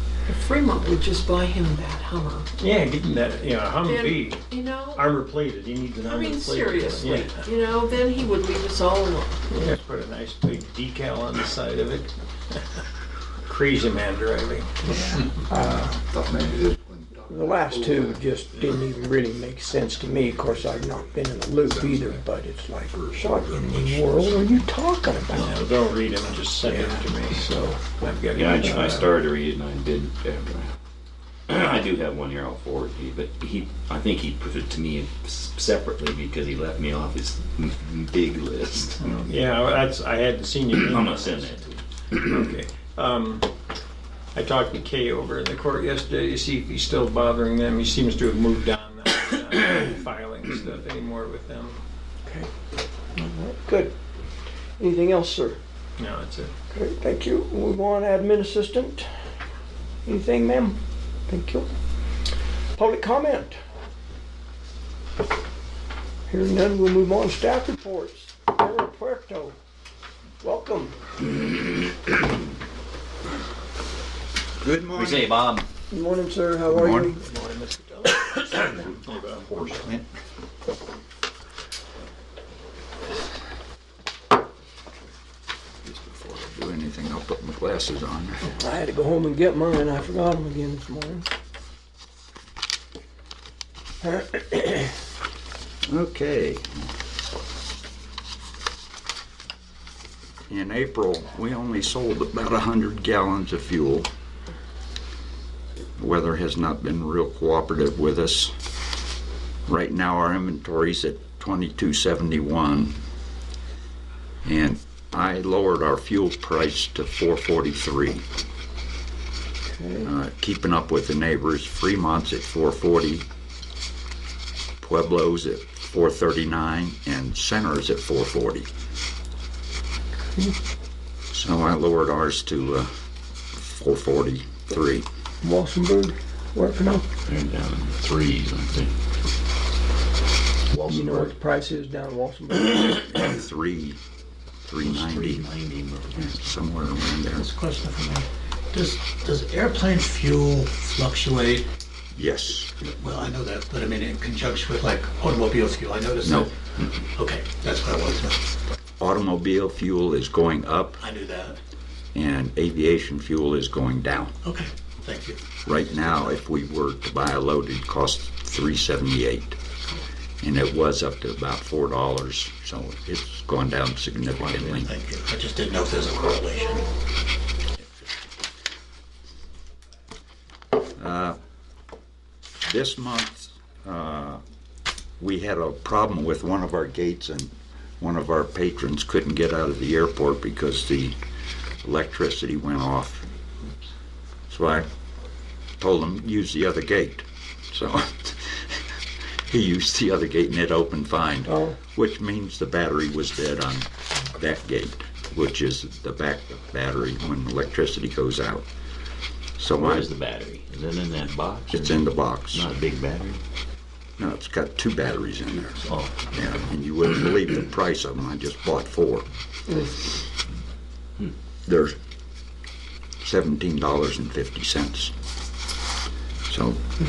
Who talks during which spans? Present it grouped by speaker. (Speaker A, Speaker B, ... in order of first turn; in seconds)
Speaker A: 0.3-2.5, 3.9-5.0, 6.1-9.3
Speaker B: 2.6-7.4, 9.5-12.6, 13.4-15.0, 25.3-29.1, 39.0-43.5, 44.3-51.8, 56.0-56.5
Speaker C: 15.5-15.9, 17.3-25.5, 53.1-53.9, 54.8-55.6, 56.7-59.1, 60.0-61.7, 62.8-63.6, 66.3-69.6, 70.4-71.0, 75.9-78.2, 88.5-91.3, 94.0-94.9, 119.8-120.1, 135.4-137.1, 140.8-143.2, 201.5-201.8
Speaker D: 15.6-18.2, 21.7-22.0, 22.9-24.6, 74.6-75.4, 76.7-77.2, 78.7-80.1, 85.8-88.4, 95.9-96.7, 100.5-104.1, 106.0-108.5, 109.7-113.0, 114.5-118.2, 120.0-123.3, 124.8-128.7, 131.3-132.9, 133.6-135.1, 143.2-144.0, 144.6-145.5, 146.2-147.5, 152.2-152.7, 156.2-156.5, 159.0-161.0, 162.1-164.3, 165.6-169.6, 170.4-174.9, 177.8-178.1, 181.0-181.4, 182.6-184.4, 185.2-191.2, 191.8-193.3, 194.5-194.9, 195.8-198.9, 199.4-208.7, 209.6-210.1, 211.7-212.7, 214.2-219.3, 221.7-222.0, 223.2-225.1, 226.5-226.8
Speaker E: 28.3-30.8, 31.5-39.0, 40.7-41.6, 74.9-75.7, 137.3-138.9, 140.7-141.3, 144.8-146.3, 174.5-174.8, 209.8-213.4, 215.8-216.3
Speaker F: 147.3-151.7, 152.9-158.4, 161.0-161.6, 164.4-165.4, 174.8-176.9